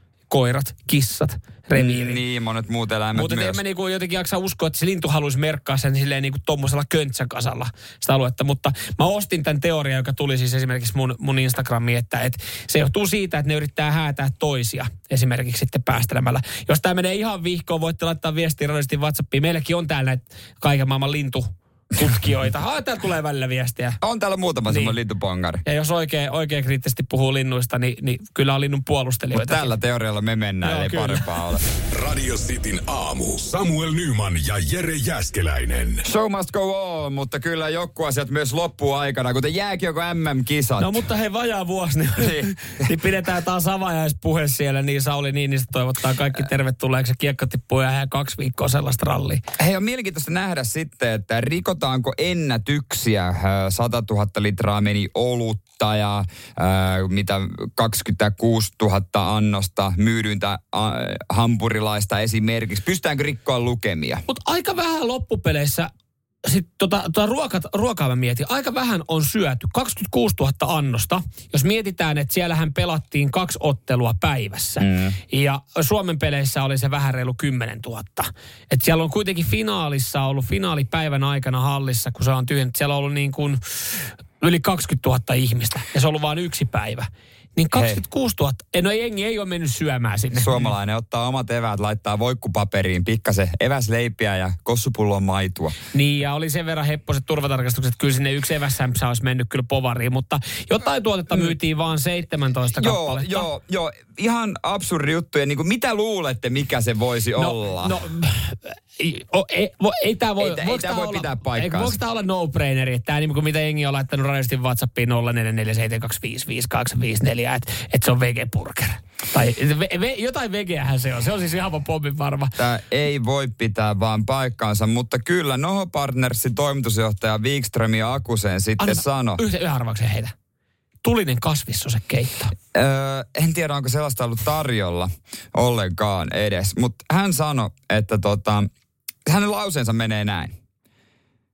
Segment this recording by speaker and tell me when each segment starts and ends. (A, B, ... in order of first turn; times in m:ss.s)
0:00.3-0:02.2 A
0:01.8-0:03.6 B
0:03.2-0:24.0 A
0:24.0-0:25.6 B
0:24.7-0:25.0 A
0:25.6-0:29.7 A
0:29.3-0:31.6 B
0:30.6-0:31.3 A
0:31.9-0:36.0 C
0:36.0-0:41.0 B
0:40.8-0:49.4 A
0:42.2-0:42.9 B
0:49.6-1:04.2 B
1:04.3-1:05.9 A
1:06.4-1:30.7 A
1:14.8-1:15.2 B
1:27.7-1:28.0 B
1:30.3-1:35.8 B
1:35.9-1:43.5 A
1:42.8-1:48.0 B
1:47.4-2:02.5 A
1:50.4-1:52.0 B
2:02.6-2:09.4 B
2:08.8-2:10.3 A
2:11.0-2:12.5 A
2:12.7-2:18.7 B
2:19.3-2:20.6 B